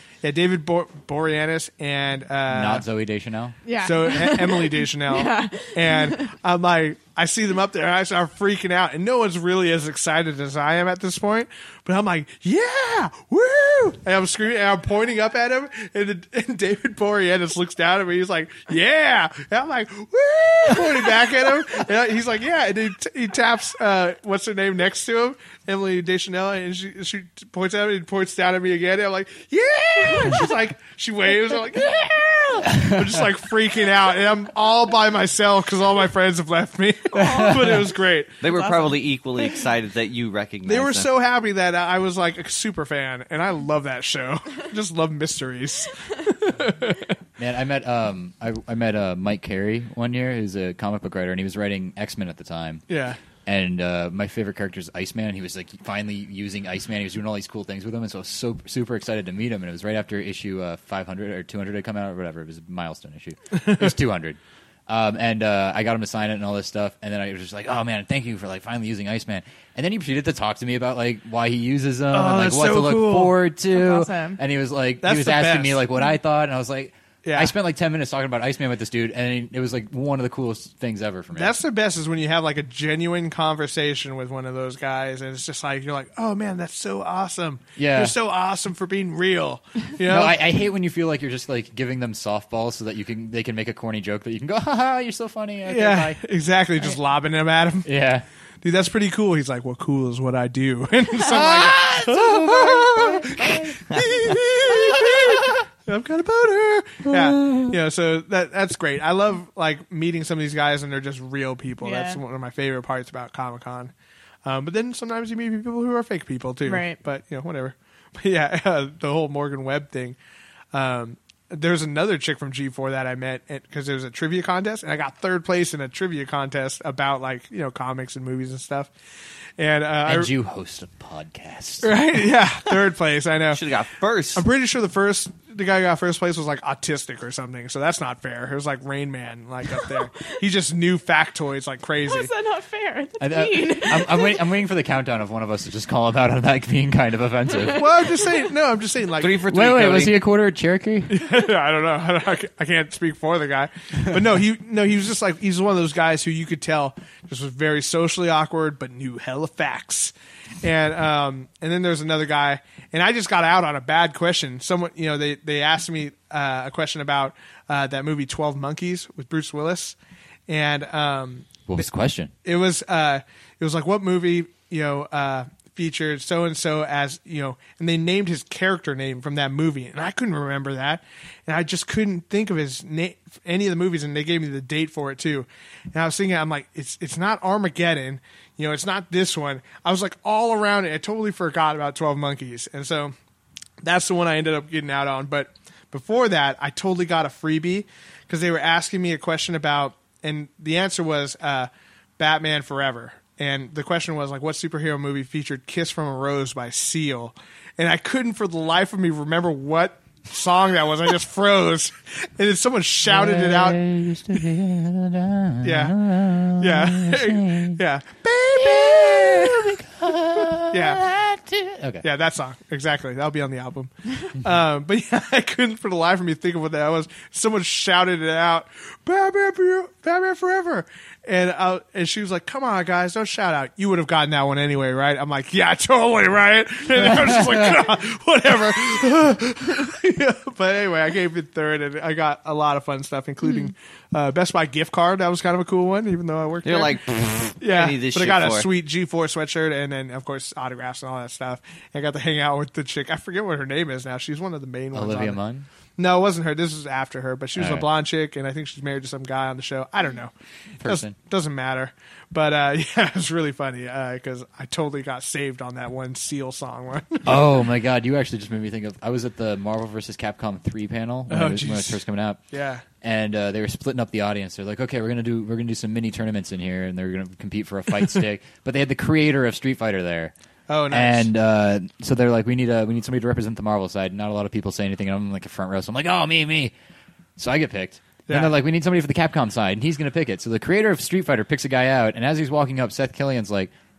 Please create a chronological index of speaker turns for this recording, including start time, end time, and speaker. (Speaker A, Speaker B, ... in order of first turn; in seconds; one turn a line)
Speaker A: 0.2-2.8
Speaker B: 2.5-3.6
Speaker C: 3.6-6.3
Speaker A: 3.8-38.4
Speaker B: 32.7-33.2
Speaker B: 37.1-37.9
Speaker C: 37.1-37.7
Speaker D: 38.4-41.1
Speaker C: 38.5-39.6
Speaker A: 40.6-47.1
Speaker B: 47.4-52.9
Speaker A: 52.9-53.2
Speaker B: 53.5-81.5
Speaker A: 63.6-63.9
Speaker A: 72.1-73.4
Speaker C: 73.7-74.4
Speaker A: 75.0-75.8
Speaker A: 77.2-77.5
Speaker A: 81.3-90.4
Speaker B: 87.8-88.1
Speaker B: 90.0-96.2
Speaker A: 95.7-97.9
Speaker B: 97.8-98.2
Speaker A: 98.6-113.9
Speaker B: 101.2-105.5
Speaker B: 107.0-107.7
Speaker C: 111.8-112.2
Speaker A: 114.4-120.2
Speaker C: 116.6-117.0
Speaker A: 120.7-128.9
Speaker A: 129.6-130.3
Speaker B: 130.0-131.9
Speaker A: 131.8-133.6
Speaker D: 133.5-134.4
Speaker A: 134.3-142.3
Speaker C: 142.1-144.4
Speaker B: 143.2-148.1
Speaker A: 147.7-149.4
Speaker D: 149.2-150.2
Speaker B: 149.5-151.2
Speaker A: 151.1-170.0
Speaker A: 170.5-171.8
Speaker B: 171.7-172.3
Speaker A: 172.4-193.1
Speaker A: 193.8-213.8
Speaker B: 213.1-217.8
Speaker A: 215.6-216.0
Speaker A: 216.5-219.8
Speaker B: 218.5-222.0
Speaker A: 220.4-221.0
Speaker A: 222.0-247.0
Speaker D: 246.6-248.7
Speaker A: 247.6-255.4
Speaker B: 254.9-255.7
Speaker A: 256.0-267.4
Speaker B: 257.6-257.9
Speaker B: 260.8-261.1
Speaker B: 267.2-272.4
Speaker A: 271.3-272.0
Speaker A: 272.5-272.8
Speaker B: 273.0-280.3
Speaker A: 280.7-281.3
Speaker B: 280.9-286.7
Speaker B: 287.4-293.7
Speaker A: 288.3-288.5